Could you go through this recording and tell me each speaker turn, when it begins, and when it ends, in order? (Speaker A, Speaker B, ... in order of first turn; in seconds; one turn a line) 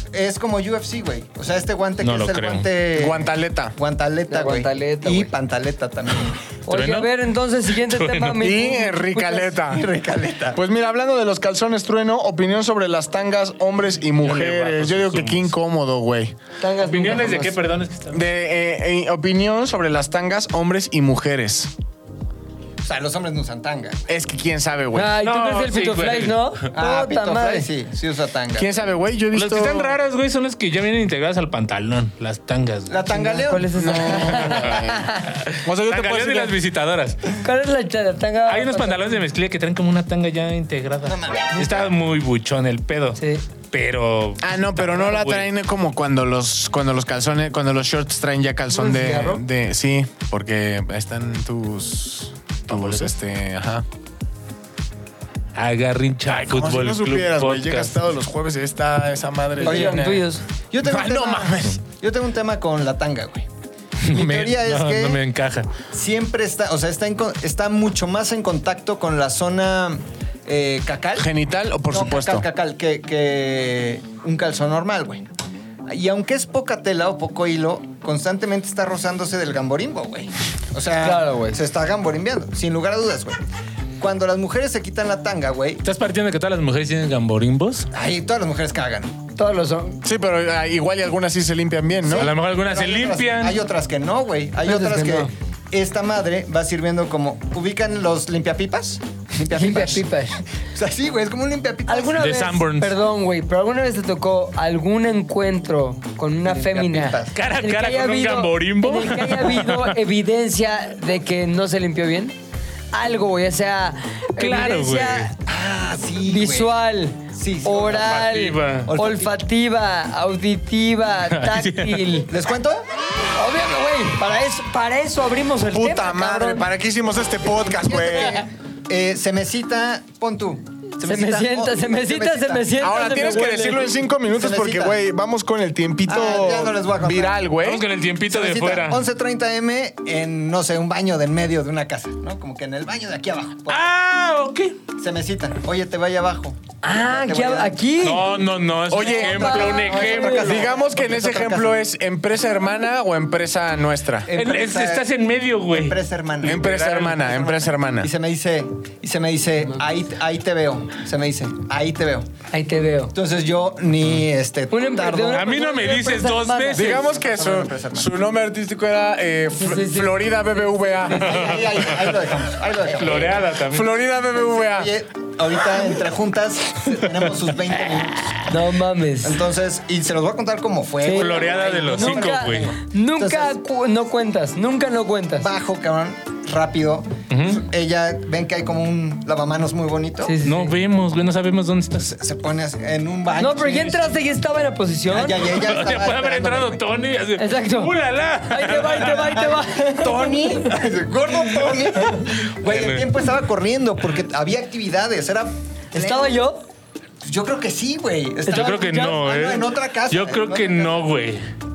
Speaker A: 0.1-3.2
Speaker B: 2.0-2.7
Speaker C: 3.0-3.7
Speaker A: 3.8-6.5
Speaker D: 4.3-5.3
Speaker D: 6.7-9.6
Speaker B: 6.7-7.1
Speaker B: 7.7-8.4
Speaker C: 8.3-9.8
Speaker A: 9.6-10.6
Speaker C: 10.5-16.3
Speaker B: 14.1-15.5
Speaker D: 16.6-17.6
Speaker B: 16.8-18.3
Speaker C: 18.1-21.7
Speaker A: 22.8-24.1
Speaker C: 24.1-25.1
Speaker D: 24.9-27.7
Speaker B: 25.2-26.6
Speaker A: 26.7-28.7
Speaker C: 28.6-30.0
Speaker B: 29.3-33.0
Speaker A: 32.9-34.2
Speaker D: 33.0-35.3
Speaker C: 33.8-36.6
Speaker B: 34.3-37.2
Speaker D: 37.4-39.2
Speaker B: 38.5-43.2
Speaker A: 41.0-41.9
Speaker D: 43.2-43.4
Speaker B: 43.7-45.5
Speaker C: 44.4-53.9
Speaker D: 48.7-49.4
Speaker B: 52.7-53.1
Speaker B: 55.5-58.0
Speaker C: 56.3-60.2
Speaker D: 59.6-60.4
Speaker A: 59.6-60.2
Speaker A: 60.7-63.5
Speaker C: 60.8-61.8
Speaker B: 64.0-65.7
Speaker A: 64.1-65.2
Speaker A: 65.9-71.3
Speaker C: 71.2-72.5
Speaker A: 71.9-75.3
Speaker A: 75.9-83.4
Speaker D: 81.0-81.6
Speaker A: 84.0-85.8
Speaker B: 85.8-87.9
Speaker A: 87.9-89.2
Speaker D: 89.4-90.0
Speaker C: 90.0-92.3
Speaker A: 92.0-100.1
Speaker B: 92.1-93.6
Speaker D: 94.6-95.3
Speaker D: 99.5-100.4
Speaker A: 100.7-102.2
Speaker D: 101.9-112.3
Speaker B: 102.2-103.0
Speaker A: 106.4-107.4
Speaker B: 107.3-110.0
Speaker D: 112.9-115.3
Speaker B: 114.4-115.3
Speaker A: 115.5-116.8
Speaker D: 116.2-122.3
Speaker A: 117.3-118.2
Speaker B: 117.9-118.9
Speaker A: 118.8-119.4
Speaker B: 121.3-122.2
Speaker A: 122.3-122.9
Speaker D: 123.3-126.7
Speaker C: 125.7-128.4
Speaker A: 127.6-133.4
Speaker D: 131.0-133.9
Speaker C: 132.8-137.8
Speaker A: 134.3-135.0
Speaker A: 136.1-137.4
Speaker B: 137.6-139.0
Speaker A: 138.3-143.9
Speaker B: 143.7-144.8
Speaker A: 145.0-147.8
Speaker D: 146.8-148.3
Speaker B: 148.0-150.6
Speaker C: 148.9-149.5
Speaker D: 149.0-150.7
Speaker A: 149.1-151.8
Speaker C: 150.3-154.3
Speaker A: 154.3-155.1
Speaker B: 154.3-157.3
Speaker A: 155.7-162.3
Speaker C: 156.4-158.1
Speaker D: 162.5-163.2
Speaker A: 163.2-165.5
Speaker D: 164.7-166.8
Speaker B: 165.3-167.0
Speaker A: 166.8-168.1
Speaker C: 166.8-171.4
Speaker D: 169.6-170.3
Speaker D: 170.8-171.7
Speaker A: 171.1-173.4
Speaker B: 171.4-172.1
Speaker B: 172.8-173.9
Speaker C: 173.7-174.9
Speaker A: 174.5-178.4
Speaker D: 178.5-179.4
Speaker A: 179.2-183.6
Speaker D: 181.0-185.5
Speaker B: 181.1-182.7
Speaker A: 185.4-190.4
Speaker B: 187.3-187.6
Speaker D: 190.2-190.8
Speaker B: 190.4-192.2
Speaker A: 192.0-194.2
Speaker D: 193.4-195.4
Speaker A: 195.1-196.8
Speaker B: 195.4-199.4
Speaker D: 197.4-197.9
Speaker D: 198.4-200.7
Speaker A: 199.2-206.4
Speaker B: 202.6-203.1
Speaker D: 205.9-206.6
Speaker A: 207.2-211.1
Speaker B: 208.5-211.4